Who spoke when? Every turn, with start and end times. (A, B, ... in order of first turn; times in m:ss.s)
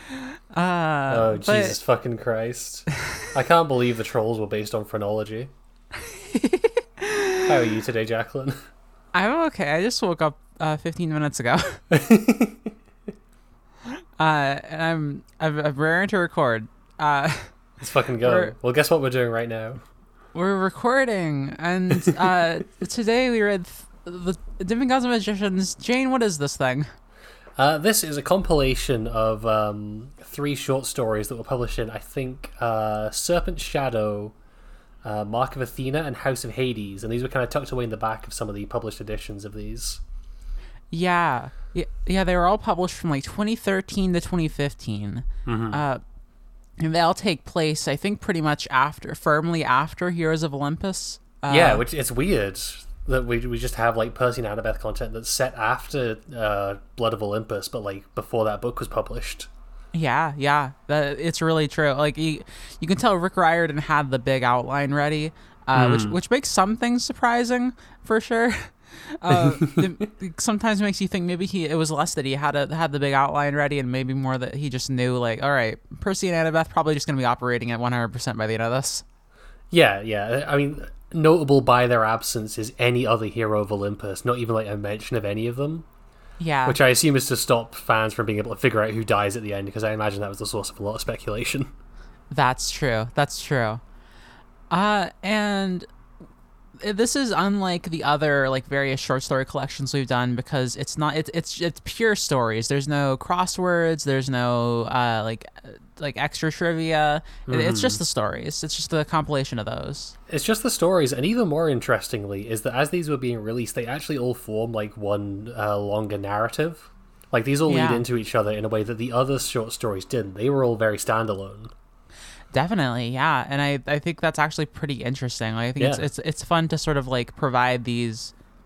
0:00.5-0:01.8 A
0:01.1-0:05.5 B
0:06.0-0:07.5 A
0:07.4-0:08.6 B
0:09.1-0:11.8 A
0:11.9-0:12.7 B
0:14.2-0:17.6 A
0:17.8-0:19.8 B
0:18.2-0:18.5 A
0:20.3-0:26.9 A
0:27.6-0:34.3 B
0:35.0-0:40.0 B
0:40.9-0:46.0 A
0:45.4-0:45.8 B
0:46.8-0:51.8 A
0:51.5-0:59.5 B
0:59.9-1:19.0 A
1:05.7-1:06.2 B
1:09.3-1:09.9 B
1:19.7-1:25.8 B
1:26.4-1:26.8 A
1:26.6-1:31.7 B
1:32.3-1:33.8 A
1:34.7-1:35.9 A
1:36.8-1:50.1 A
1:47.5-1:48.0 B
1:50.3-2:01.7 B
1:57.7-1:58.0 A
2:02.5-2:08.3 A
2:05.8-2:06.0 B